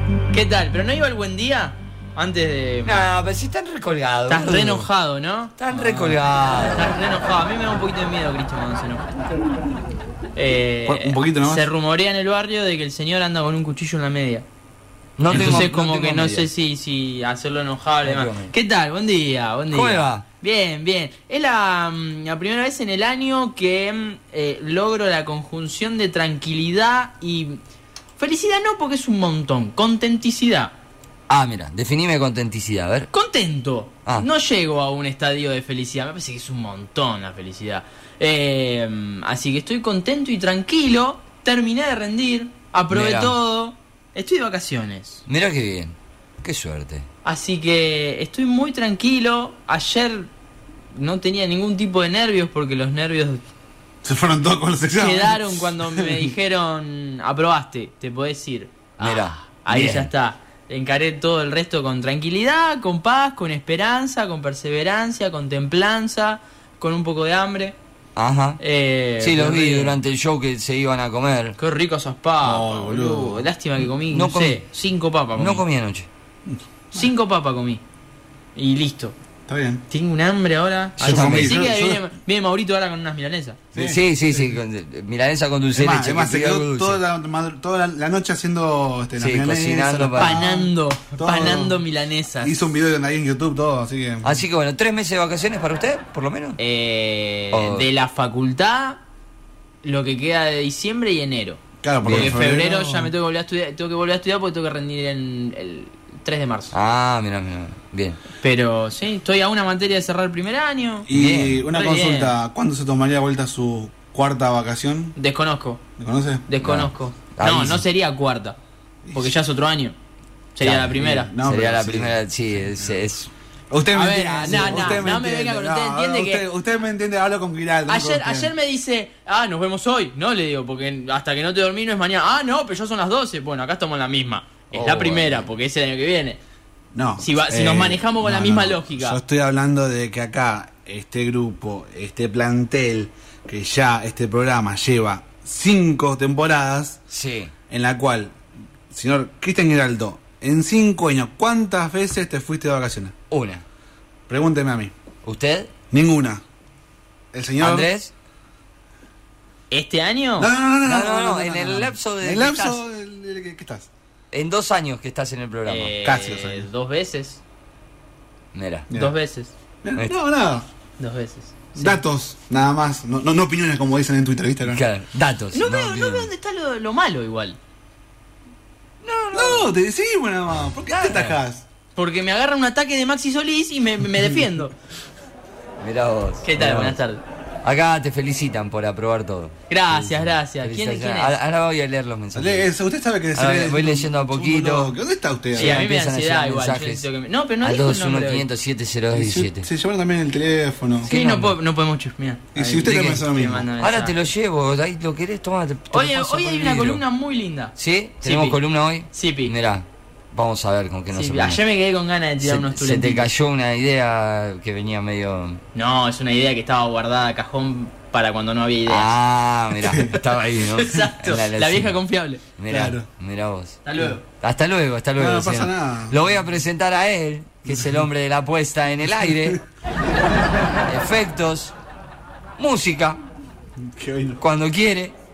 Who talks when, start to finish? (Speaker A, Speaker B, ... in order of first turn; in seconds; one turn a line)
Speaker A: 0.3-3.1
Speaker B: 2.9-4.9
Speaker A: 4.3-9.1
Speaker B: 5.6-7.0
Speaker A: 10.3-14.4
Speaker C: 10.8-11.7
Speaker B: 15.2-16.5
Speaker A: 15.3-27.6
Speaker C: 15.3-15.6
Speaker B: 18.0-18.5
Speaker B: 19.7-20.2
Speaker A: 28.2-30.8
Speaker B: 31.3-33.1
Speaker A: 33.1-45.2
Speaker B: 42.9-43.4
Speaker B: 45.3-47.1
Speaker A: 47.2-50.3
Speaker A: 50.9-53.4
Speaker C: 54.0-56.3
Speaker A: 55.0-67.8
Speaker B: 59.0-60.1
Speaker B: 68.2-68.6
Speaker A: 68.6-70.0
Speaker B: 69.2-71.6
Speaker A: 71.6-75.6
Speaker C: 72.4-73.5
Speaker B: 74.0-74.6
Speaker B: 75.4-76.1
Speaker C: 76.5-77.0
Speaker A: 76.9-77.8
Speaker A: 78.6-79.2
Speaker C: 79.5-79.8
Speaker A: 79.9-83.6
Speaker B: 81.0-81.7
Speaker C: 81.0-82.0
Speaker C: 83.7-84.5
Speaker B: 83.8-87.0
Speaker C: 85.8-91.8
Speaker B: 89.2-90.4
Speaker A: 90.2-92.6
Speaker C: 92.4-94.4
Speaker B: 94.2-96.6
Speaker A: 96.6-99.0
Speaker B: 97.5-97.9
Speaker A: 99.8-106.8
Speaker C: 101.8-103.1
Speaker B: 102.0-102.4
Speaker B: 106.7-108.2
Speaker A: 108.4-111.1
Speaker C: 111.1-115.2
Speaker B: 111.1-111.6
Speaker A: 111.7-112.4
Speaker A: 115.2-115.8
Speaker C: 116.0-116.5
Speaker A: 116.5-118.6
Speaker B: 116.6-117.9
Speaker C: 119.0-119.4
Speaker A: 119.2-120.0
Speaker A: 120.6-121.3
Speaker B: 120.6-123.3
Speaker C: 120.9-122.2
Speaker C: 122.7-123.0
Speaker C: 123.7-128.5
Speaker A: 123.9-126.5
Speaker A: 127.9-136.4
Speaker B: 134.7-135.5
Speaker C: 136.9-147.0
Speaker A: 137.2-139.2
Speaker B: 147.1-147.5
Speaker C: 147.7-148.4
Speaker C: 148.9-153.1
Speaker B: 153.3-153.7
Speaker C: 154.3-154.9
Speaker B: 155.2-155.7
Speaker C: 155.9-156.4
Speaker C: 157.3-157.9
Speaker B: 157.6-158.1
Speaker A: 159.7-160.5
Speaker C: 160.4-163.9
Speaker B: 160.8-162.8
Speaker B: 164.3-165.9
Speaker A: 165.7-167.4
Speaker C: 166.0-166.7
Speaker B: 168.5-168.9
Speaker A: 168.9-169.5
Speaker C: 169.8-170.7
Speaker A: 171.0-172.0
Speaker C: 171.8-174.8
Speaker B: 174.7-176.3
Speaker A: 175.5-177.6
Speaker B: 179.0-179.7
Speaker C: 179.3-181.7
Speaker B: 180.9-181.4
Speaker A: 182.0-184.8
Speaker B: 185.8-187.0
Speaker A: 186.4-187.2
Speaker B: 187.6-192.7
Speaker A: 189.7-191.4
Speaker C: 192.3-195.8
Speaker B: 193.3-194.9
Speaker B: 195.6-197.1
Speaker A: 195.6-198.5
Speaker B: 197.6-199.7
Speaker C: 199.1-201.1
Speaker B: 201.0-201.6
Speaker A: 201.1-204.2
Speaker C: 202.6-203.7
Speaker B: 203.8-207.0
Speaker A: 205.9-208.6
Speaker B: 207.8-211.6
Speaker A: 209.1-209.5
Speaker A: 211.1-213.3
Speaker B: 212.4-215.6
Speaker A: 215.8-219.1
Speaker B: 218.9-222.0
Speaker C: 219.8-220.2
Speaker A: 220.5-222.5
Speaker B: 222.6-223.8
Speaker C: 222.7-223.1
Speaker A: 223.8-224.2
Speaker B: 224.3-229.6
Speaker C: 225.2-226.2
Speaker C: 227.7-228.0
Speaker C: 229.1-229.6
Speaker B: 230.9-231.7
Speaker B: 232.6-233.2
Speaker C: 233.8-234.4
Speaker B: 234.4-235.2